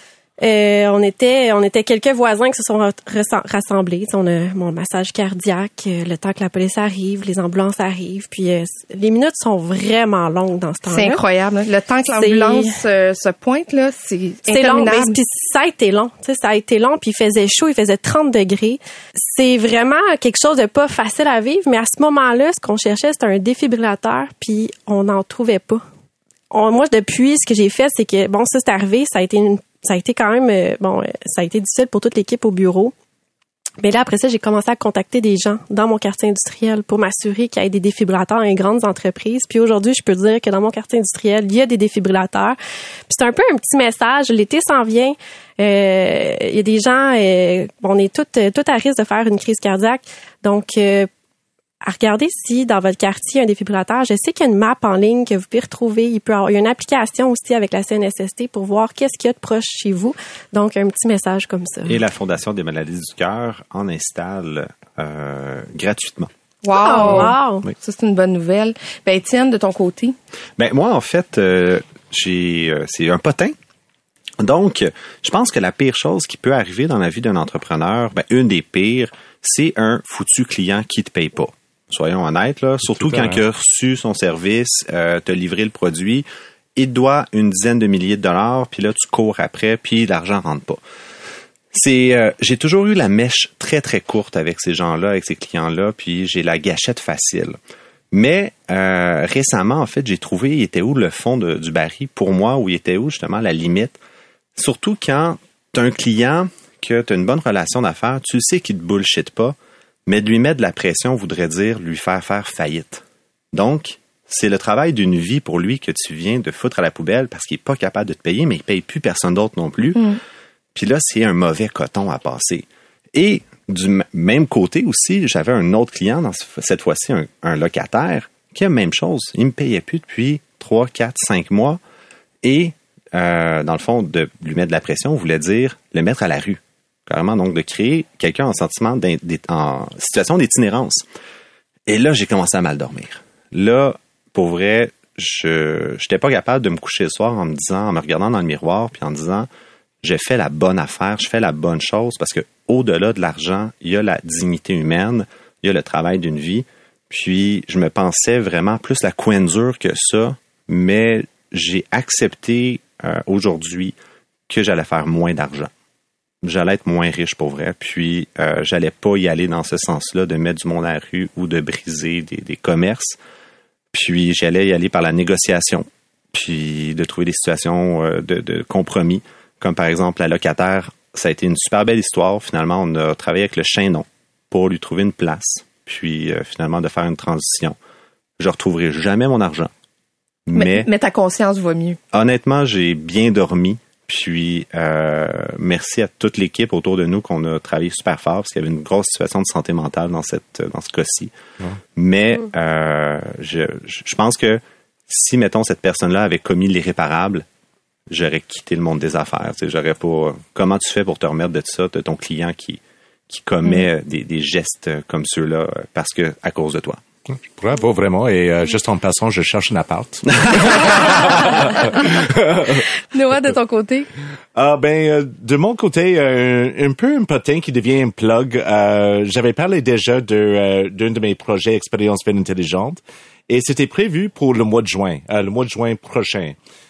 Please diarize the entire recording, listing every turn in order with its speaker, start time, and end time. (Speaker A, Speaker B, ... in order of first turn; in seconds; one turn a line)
Speaker A: 0.4-11.2
Speaker B: 10.9-15.1
Speaker A: 12.1-12.7
Speaker A: 14.5-25.8
Speaker A: 26.5-32.9
Speaker A: 33.8-42.6
Speaker A: 43.1-51.1
Speaker A: 51.8-62.0
Speaker C: 61.9-66.3
Speaker B: 66.6-70.2
Speaker A: 66.7-67.6
Speaker C: 66.9-67.7
Speaker C: 70.6-73.5
Speaker C: 74.4-86.2
Speaker D: 82.9-83.4
Speaker C: 86.8-90.8
Speaker C: 91.7-97.6
Speaker C: 98.1-104.0
Speaker C: 104.5-109.5
Speaker C: 110.1-120.1
Speaker C: 120.7-131.8
Speaker C: 132.4-141.0
Speaker C: 141.9-149.5
Speaker C: 150.0-163.9
Speaker C: 164.5-165.7
Speaker C: 166.4-173.2
Speaker C: 173.9-187.8
Speaker C: 188.4-189.7
Speaker C: 190.5-190.9
Speaker B: 190.5-192.0
Speaker C: 192.1-201.3
Speaker C: 201.9-207.4
Speaker C: 208.1-217.0
Speaker D: 217.3-222.8
Speaker B: 223.1-224.1
Speaker D: 224.5-236.6